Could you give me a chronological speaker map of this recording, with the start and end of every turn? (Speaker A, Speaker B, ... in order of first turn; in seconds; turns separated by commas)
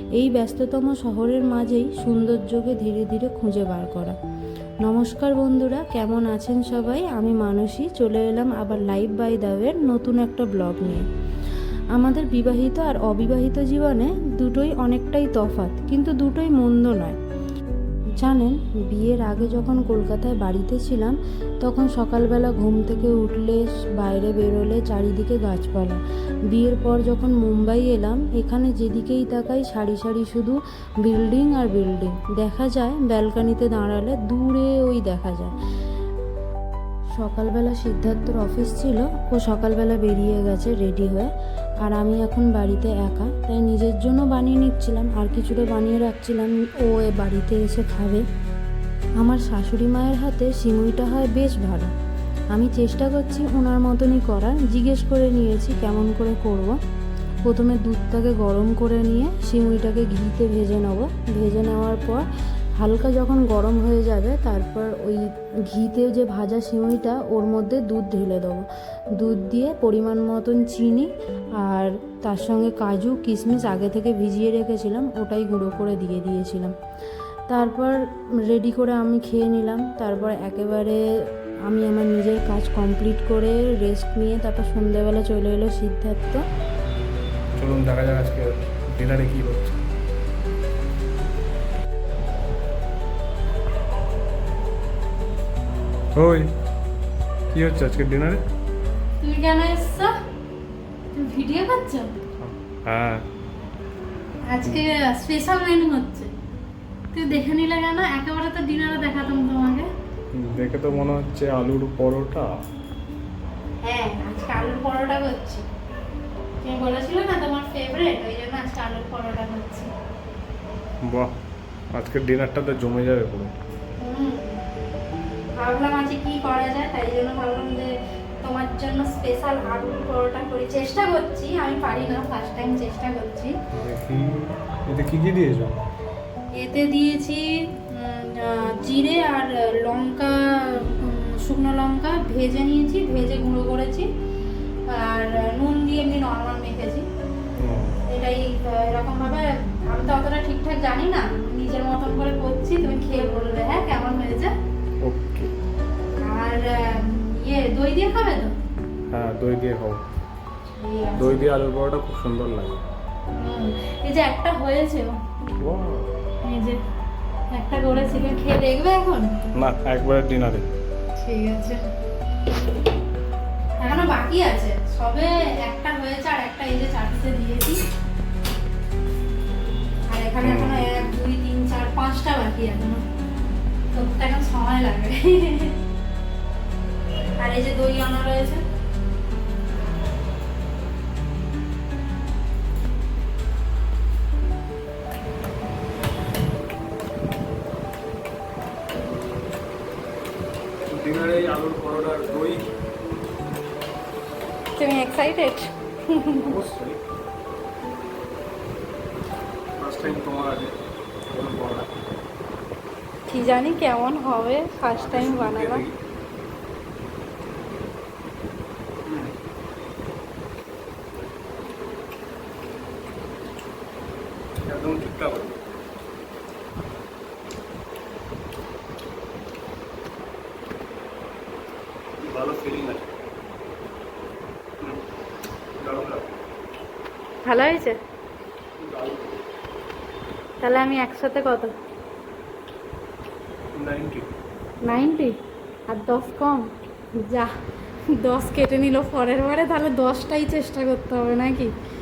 Speaker A: 0.1-4.2, Speaker A: 4.8-11.0, Speaker A: 11.9-17.2, Speaker A: 18.2-35.5, Speaker A: 37.2-41.3, Speaker A: 41.8-48.2, Speaker A: 49.2-51.9, Speaker A: 52.5-56.7, Speaker A: 57.5-62.2, Speaker A: 62.8-71.1, Speaker A: 71.6-76.7, Speaker A: 77.5-81.0, Speaker A: 81.7-86.4, Speaker B: 87.6-89.8, Speaker B: 96.2-96.5, Speaker B: 97.5-98.4, Speaker C: 99.2-100.1, Speaker C: 101.1-102.1, Speaker B: 102.4-103.2, Speaker C: 104.5-106.3, Speaker C: 107.1-109.9, Speaker B: 110.3-112.5, Speaker C: 113.8-115.6, Speaker C: 116.6-119.9, Speaker B: 121.1-121.3, Speaker B: 121.9-123.5, Speaker C: 124.0-124.6, Speaker C: 125.6-127.9, Speaker C: 128.4-133.5, Speaker B: 133.8-135.8, Speaker C: 136.6-144.1, Speaker C: 144.9-147.0, Speaker B: 147.6-148.0, Speaker C: 148.1-154.5, Speaker B: 155.0-155.5, Speaker C: 156.2-158.5, Speaker B: 159.1-160.0, Speaker C: 160.8-161.3, Speaker B: 161.2-162.8, Speaker C: 163.3-165.1, Speaker B: 165.6-166.1, Speaker C: 166.4-166.8, Speaker C: 167.5-169.3, Speaker B: 169.6-170.7, Speaker C: 171.2-171.8, Speaker C: 173.8-177.8, Speaker C: 180.1-183.0, Speaker B: 180.4-180.9, Speaker C: 183.9-185.7, Speaker C: 187.4-188.6, Speaker B: 200.9-202.7, Speaker C: 204.8-206.5, Speaker B: 206.3-207.0, Speaker B: 209.8-210.7, Speaker B: 211.3-211.9, Speaker C: 213.3-215.8, Speaker B: 214.9-215.9, Speaker B: 219.1-219.3, Speaker B: 224.7-225.5, Speaker B: 232.2-233.0, Speaker B: 235.8-236.3, Speaker C: 237.4-237.9, Speaker B: 238.8-239.4, Speaker C: 240.6-241.7, Speaker B: 243.7-244.3, Speaker C: 244.8-245.4, Speaker C: 245.9-246.6, Speaker C: 247.2-247.5, Speaker C: 248.2-251.7